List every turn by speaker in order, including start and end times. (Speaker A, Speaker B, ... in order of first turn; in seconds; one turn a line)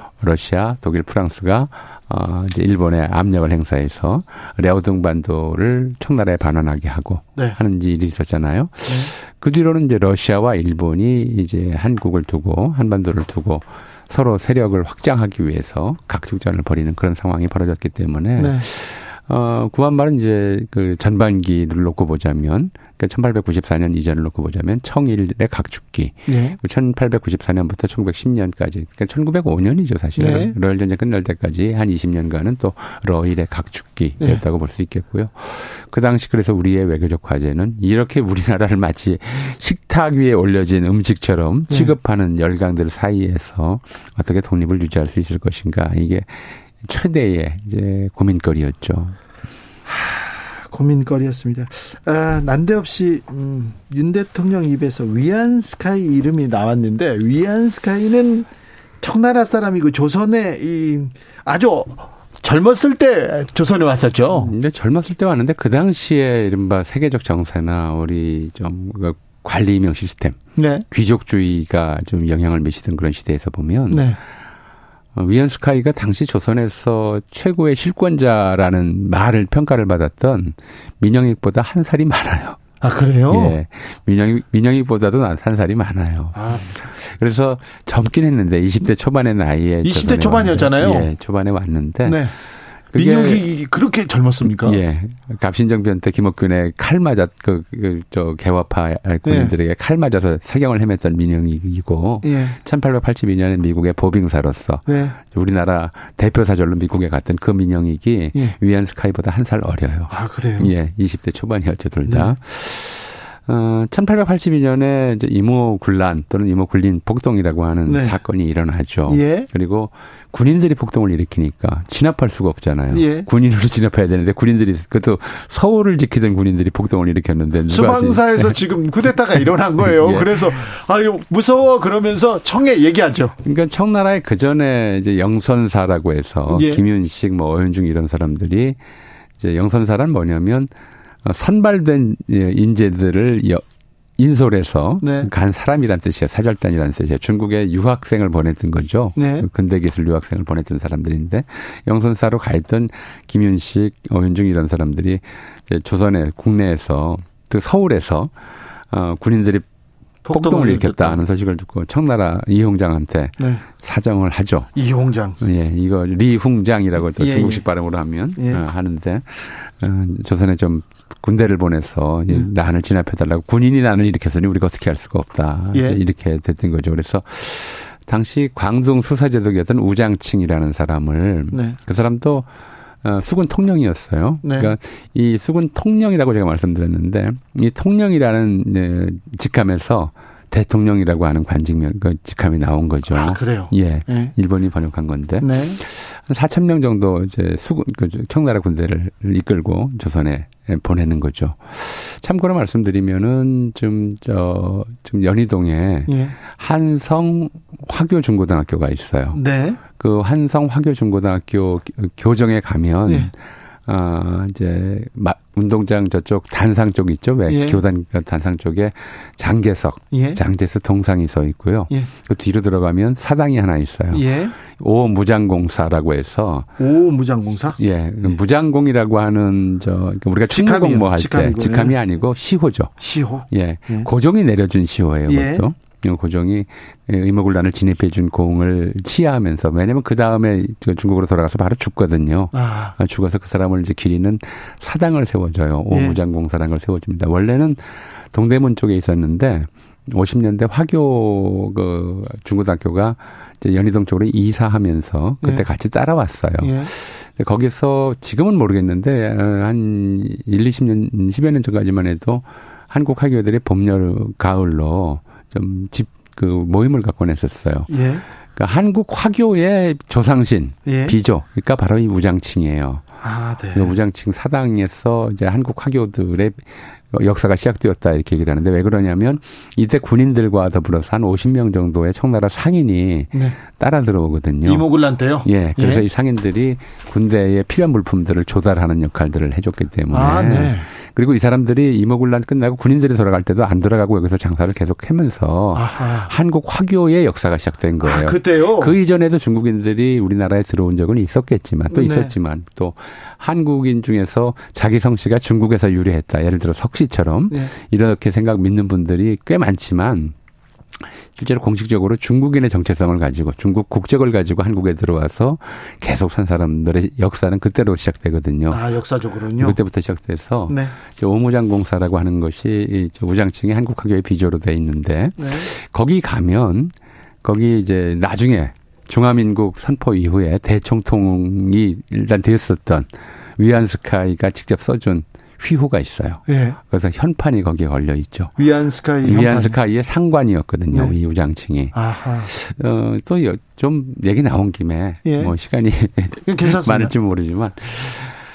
Speaker A: 0.2-49.2
Speaker B: 8.9-9.1
Speaker B: 18.4-18.7
Speaker B: 26.3-26.6
Speaker B: 30.2-30.6
Speaker B: 41.7-42.0
Speaker B: 49.9-58.5
Speaker B: 59.0-64.5
Speaker A: 64.4-74.1
Speaker B: 70.6-70.8
Speaker B: 73.9-74.2
Speaker A: 75.2-82.6
Speaker B: 82.8-83.6
Speaker A: 83.3-92.3
Speaker B: 86.3-86.8
Speaker B: 89.8-91.1
Speaker B: 92.0-92.3
Speaker A: 92.9-93.4
Speaker B: 92.9-94.8
Speaker A: 94.4-128.6
Speaker B: 99.2-99.5
Speaker B: 102.2-102.6
Speaker B: 104.9-105.2
Speaker B: 110.1-110.7
Speaker B: 112.0-112.3
Speaker B: 117.9-118.2
Speaker B: 119.1-119.5
Speaker B: 122.9-123.3
Speaker B: 127.7-133.4
Speaker A: 129.4-130.6
Speaker A: 133.4-138.8
Speaker B: 136.5-136.8
Speaker A: 139.4-140.7
Speaker A: 141.2-143.6
Speaker A: 144.2-158.3
Speaker B: 145.0-145.3
Speaker B: 149.2-149.5
Speaker A: 158.9-159.7
Speaker B: 160.2-161.2
Speaker A: 160.3-164.7
Speaker B: 163.4-163.7
Speaker B: 164.8-165.4
Speaker A: 165.4-182.5
Speaker B: 167.1-167.7
Speaker B: 168.4-168.7
Speaker B: 175.7-176.0
Speaker B: 181.5-181.8
Speaker A: 183.0-209.4
Speaker B: 184.4-184.8
Speaker B: 193.1-194.3
Speaker B: 195.4-195.8
Speaker B: 206.1-206.4
Speaker B: 209.3-209.8
Speaker A: 209.9-213.3
Speaker B: 213.1-213.3
Speaker A: 213.9-226.7
Speaker B: 217.5-217.8
Speaker B: 220.1-220.4
Speaker B: 224.1-224.6
Speaker B: 226.8-228.4
Speaker A: 227.8-232.9
Speaker B: 230.5-232.0
Speaker B: 233.0-234.1
Speaker A: 233.5-267.9
Speaker B: 235.3-235.7
Speaker B: 242.5-242.9
Speaker B: 245.9-246.2
Speaker B: 256.6-256.9
Speaker B: 267.9-268.2
Speaker A: 268.6-273.0
Speaker B: 270.9-271.2
Speaker B: 273.2-273.9
Speaker A: 273.7-284.9
Speaker B: 284.6-286.0
Speaker A: 285.4-310.4
Speaker B: 290.1-290.9
Speaker B: 295.7-296.3
Speaker B: 298.0-299.0
Speaker B: 301.9-302.3
Speaker A: 311.4-318.8
Speaker B: 318.7-319.8
Speaker A: 319.6-338.6
Speaker B: 320.7-320.9
Speaker B: 325.4-325.7
Speaker B: 336.5-336.8
Speaker B: 338.6-339.8
Speaker A: 339.2-341.9
Speaker B: 341.9-342.5
Speaker A: 342.5-348.4
Speaker B: 345.3-345.6
Speaker B: 346.5-347.1